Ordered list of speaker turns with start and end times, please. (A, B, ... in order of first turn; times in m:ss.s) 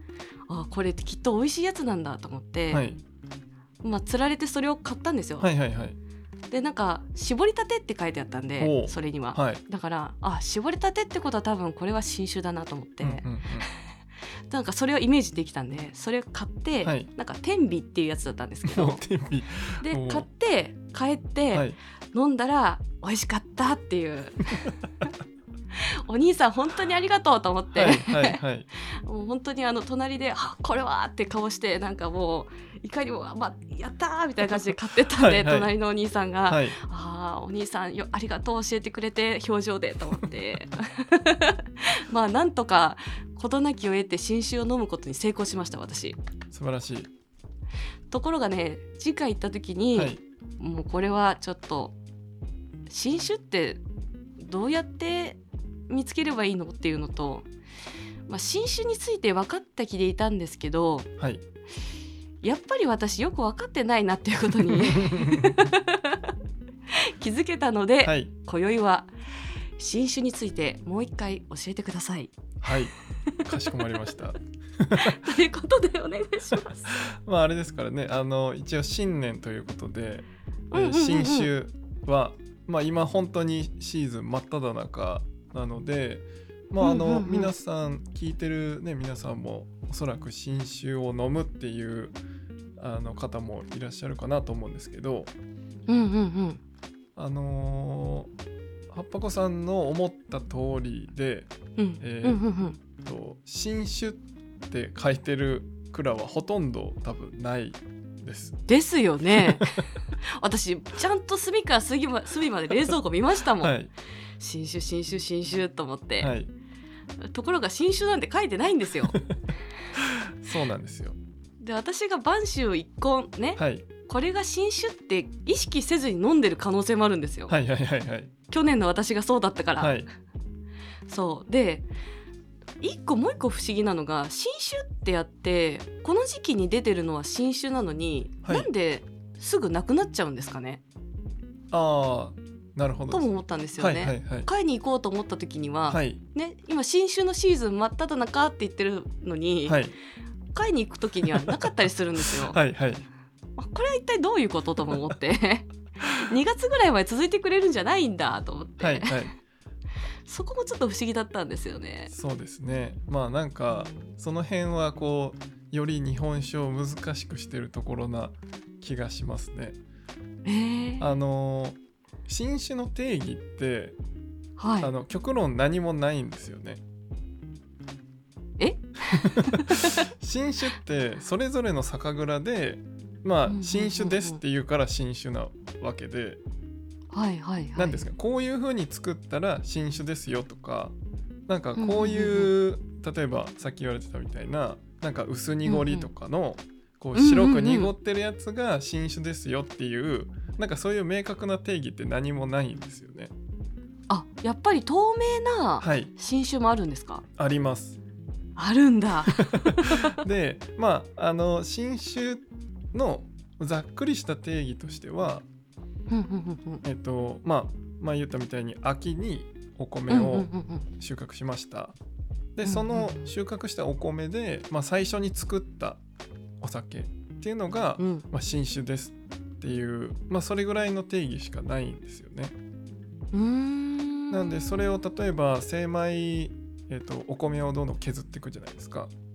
0:00.5-0:02.8 A
0:02.7-0:03.0 B
0:03.8-0:05.5 A
0:05.4-0:06.0 B
0:06.5-0:13.7 A
0:08.6-0:09.6 B
0:13.0-0:13.7 B
0:14.5-0:19.0 A
0:16.8-0:17.1 B
0:18.6-0:20.3 B
0:19.8-0:24.7 A
0:25.8-0:46.2 A
0:27.8-0:28.7 B
0:35.2-0:35.7 B
0:36.5-0:36.8 B
0:46.5-0:47.1 B
0:48.1-0:52.0 A
0:50.0-0:50.2 B
0:52.9-0:53.8 A
0:54.4-0:57.5 A
0:58.3-1:01.1 A
1:02.4-1:06.3 A
1:04.7-1:05.7 B
1:06.9-1:09.1 A
1:08.0-1:08.3 B
1:09.8-1:12.4 A
1:12.6-1:12.9 B
1:13.3-1:14.1 A
1:13.4-1:15.2 B
1:15.0-1:16.9 A
1:16.9-1:32.2 B
1:20.7-1:21.5 A
1:26.8-1:27.5 A
1:32.8-1:35.3 B
1:35.9-1:36.6 A
1:37.2-1:38.3 B
1:38.9-1:42.4 B
1:41.8-1:42.8 A
1:43.0-1:48.6 B
1:48.7-1:53.8 A
1:49.4-1:49.8 B
1:53.6-1:53.9 B
1:54.4-1:56.3 A
1:56.2-1:56.5 B
1:57.2-1:59.2 A
1:59.1-1:59.3 B
1:59.9-2:01.2 B
2:01.6-2:07.6 A
2:03.6-2:03.9 B
2:07.5-2:08.3 B
2:08.5-2:10.0 A
2:09.8-2:10.1 B
2:11.1-2:11.9 A
2:12.8-2:20.8 A
2:18.4-2:18.7 B
2:21.7-2:24.5 B
2:23.1-2:29.8 A
2:25.9-2:26.2 B
2:29.7-2:30.0 B
2:30.5-2:32.6 A
2:31.4-2:31.6 B
2:32.3-2:33.1 B
2:33.6-2:39.3 A
2:38.8-2:39.4 B
2:40.3-2:42.1 A
2:42.1-2:49.8 B
2:43.7-2:44.1 A
2:50.4-2:51.1 A
2:51.0-2:54.0 B
2:54.6-2:54.9 A
2:54.8-2:56.8 B
2:58.6-3:00.1 A
2:59.4-3:06.4 B
3:03.5-3:04.4 A
3:07.1-3:08.1 A
3:07.8-3:11.0 B
3:11.5-3:23.3 B
3:11.8-3:12.5 A
3:15.7-3:16.1 A
3:17.2-3:17.9 A
3:24.1-3:27.2 A
3:25.8-3:26.1 B
3:27.4-3:28.0 B
3:28.6-3:30.2 A
3:29.3-3:35.5 B
3:36.1-3:36.8 A
3:36.8-3:42.0 B
3:40.1-3:40.9 A
3:42.6-3:46.0 B
3:42.6-3:43.3 A
3:46.6-3:52.6 B
3:48.0-3:48.2 A
3:53.3-3:55.0 A
3:54.3-3:59.1 B